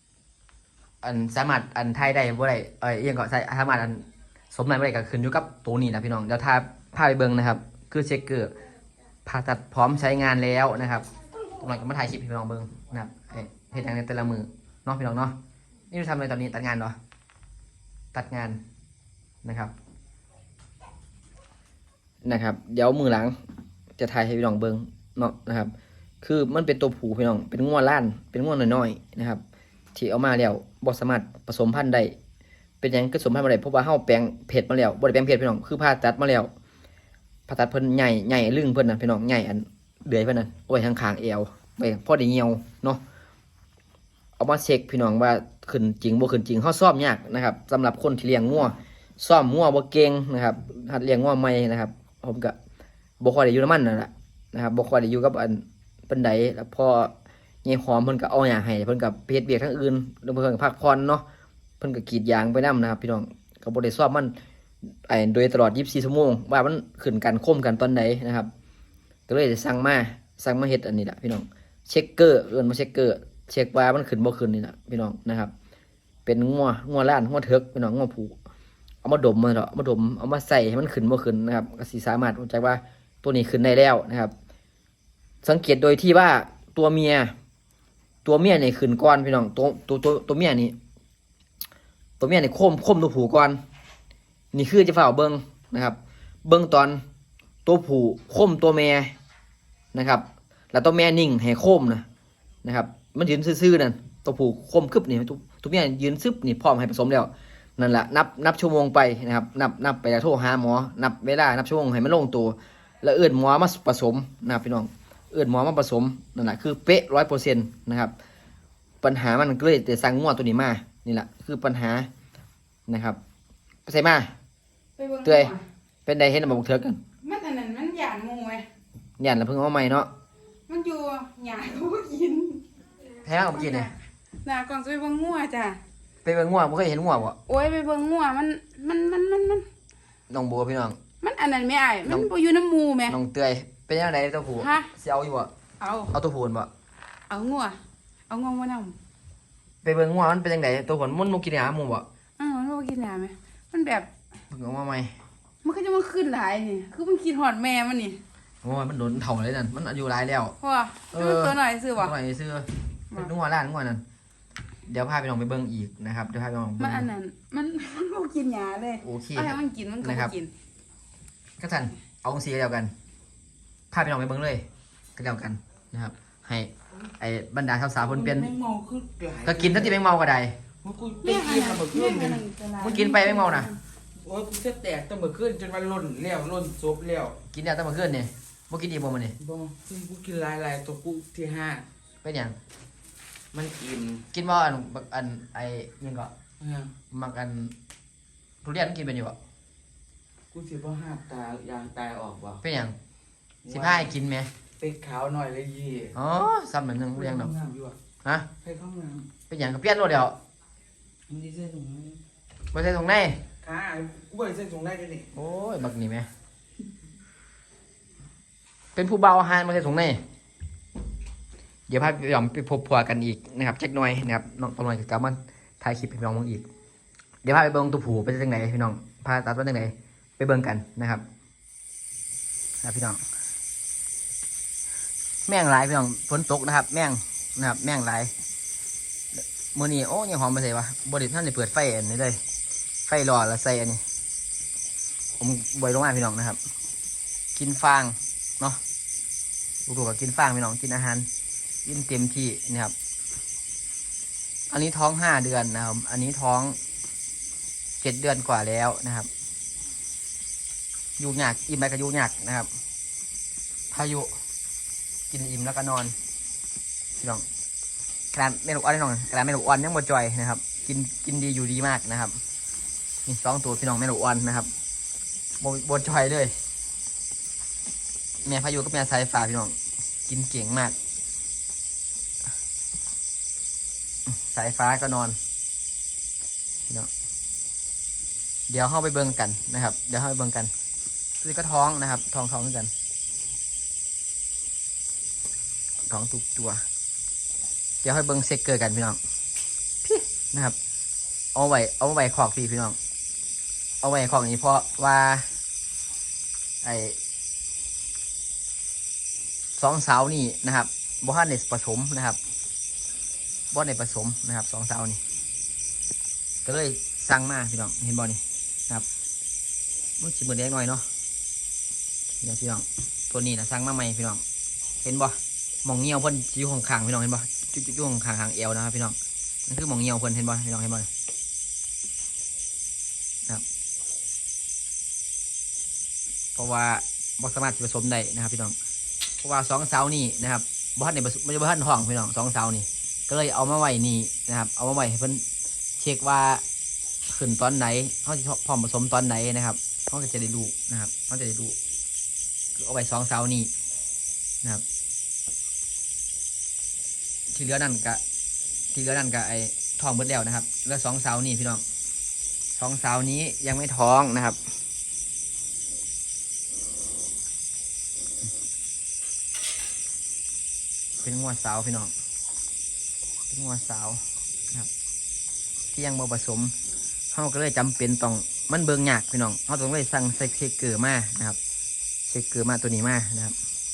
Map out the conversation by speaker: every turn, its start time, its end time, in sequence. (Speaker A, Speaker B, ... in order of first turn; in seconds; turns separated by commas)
Speaker A: 1.0-8.5, Speaker A: 9.3-15.4, Speaker A: 15.9-17.0, Speaker A: 18.1-18.6, Speaker A: 19.4-19.7, Speaker A: 22.2-23.4, Speaker A: 24.0-29.4, Speaker A: 29.9-32.1, Speaker A: 32.8-36.5, Speaker A: 37.5-43.0, Speaker A: 44.4-52.5, Speaker A: 53.2-57.1, Speaker A: 57.6-61.2, Speaker A: 61.8-64.3, Speaker A: 65.1-68.5, Speaker A: 69.3-75.5, Speaker A: 76.3-78.4, Speaker A: 79.0-84.3, Speaker A: 85.4-87.3, Speaker A: 88.2-90.8, Speaker A: 92.2-93.6, Speaker A: 94.5-97.0, Speaker A: 97.7-99.1, Speaker A: 99.9-102.0, Speaker A: 102.6-118.1, Speaker A: 119.0-122.1, Speaker A: 122.9-123.2, Speaker A: 123.9-124.3, Speaker B: 125.0-125.6, Speaker A: 125.2-125.5, Speaker A: 126.1-127.0, Speaker B: 127.2-128.7, Speaker A: 129.2-130.1, Speaker B: 130.7-132.6, Speaker A: 133.2-133.9, Speaker B: 133.5-135.8, Speaker A: 136.2-137.4, Speaker B: 137.5-139.7, Speaker A: 140.3-141.0, Speaker B: 141.2-143.2, Speaker A: 143.1-145.5, Speaker B: 144.6-144.9, Speaker B: 145.8-146.1, Speaker A: 146.1-146.7, Speaker B: 147.3-147.8, Speaker B: 148.3-149.0, Speaker A: 149.8-152.1, Speaker B: 152.4-154.1, Speaker A: 154.5-155.1, Speaker B: 155.6-158.2, Speaker A: 158.6-160.6, Speaker B: 160.6-162.1, Speaker A: 161.1-164.0, Speaker A: 164.9-167.1, Speaker B: 166.8-170.5, Speaker A: 169.0-170.3, Speaker A: 171.6-172.9, Speaker A: 173.9-178.5, Speaker C: 178.0-180.0, Speaker A: 179.4-180.6, Speaker C: 180.8-182.4, Speaker B: 181.2-183.8, Speaker A: 182.8-183.7, Speaker C: 184.2-187.4, Speaker A: 187.5-189.4, Speaker C: 189.4-191.9, Speaker A: 192.2-192.6, Speaker C: 193.5-194.2, Speaker A: 194.3-196.3, Speaker C: 196.6-196.9, Speaker A: 197.1-197.8, Speaker A: 198.6-199.4, Speaker C: 200.5-202.6, Speaker A: 202.6-203.0, Speaker C: 203.7-204.1, Speaker A: 203.7-204.5, Speaker C: 204.8-206.1, Speaker A: 206.1-207.5, Speaker C: 207.2-208.0, Speaker C: 208.6-209.3, Speaker A: 209.5-210.4, Speaker C: 211.3-212.2, Speaker A: 212.7-213.4, Speaker C: 213.6-215.3, Speaker A: 215.3-216.3, Speaker A: 218.9-220.2, Speaker A: 221.9-226.7, Speaker A: 227.4-231.2, Speaker A: 232.8-233.2, Speaker A: 235.5-238.3, Speaker A: 239.4-242.4, Speaker A: 243.1-244.0, Speaker A: 245.4-246.6, Speaker A: 247.6-248.8, Speaker A: 249.9-251.3, Speaker A: 251.8-252.9, Speaker A: 254.7-256.8, Speaker A: 258.0-259.3, Speaker A: 261.2-262.7, Speaker A: 263.9-264.3, Speaker A: 265.3-266.1, Speaker A: 267.2-267.4, Speaker A: 268.3-272.4, Speaker A: 273.3-274.7, Speaker A: 275.6-276.5, Speaker A: 278.4-279.8, Speaker A: 280.3-280.9, Speaker A: 284.3-285.4, Speaker A: 288.7-290.7, Speaker A: 291.4-292.9, Speaker A: 296.1-296.8, Speaker A: 298.0-299.2, Speaker A: 300.0-300.8, Speaker A: 301.6-303.0, Speaker A: 304.0-305.5, Speaker A: 306.8-307.2, Speaker A: 309.8-312.4, Speaker A: 313.7-315.2, Speaker A: 316.6-319.1, Speaker A: 320.2-321.1, Speaker A: 322.4-324.4, Speaker A: 325.0-329.2, Speaker A: 329.7-331.1, Speaker A: 336.6-338.8, Speaker A: 339.4-345.4, Speaker A: 346.0-346.6, Speaker A: 347.3-351.8, Speaker A: 352.8-353.7, Speaker A: 357.5-358.2, Speaker A: 358.9-361.8, Speaker A: 362.8-364.6, Speaker A: 371.2-372.1, Speaker A: 373.5-374.9, Speaker A: 375.9-376.7, Speaker A: 377.3-381.6, Speaker A: 382.3-383.6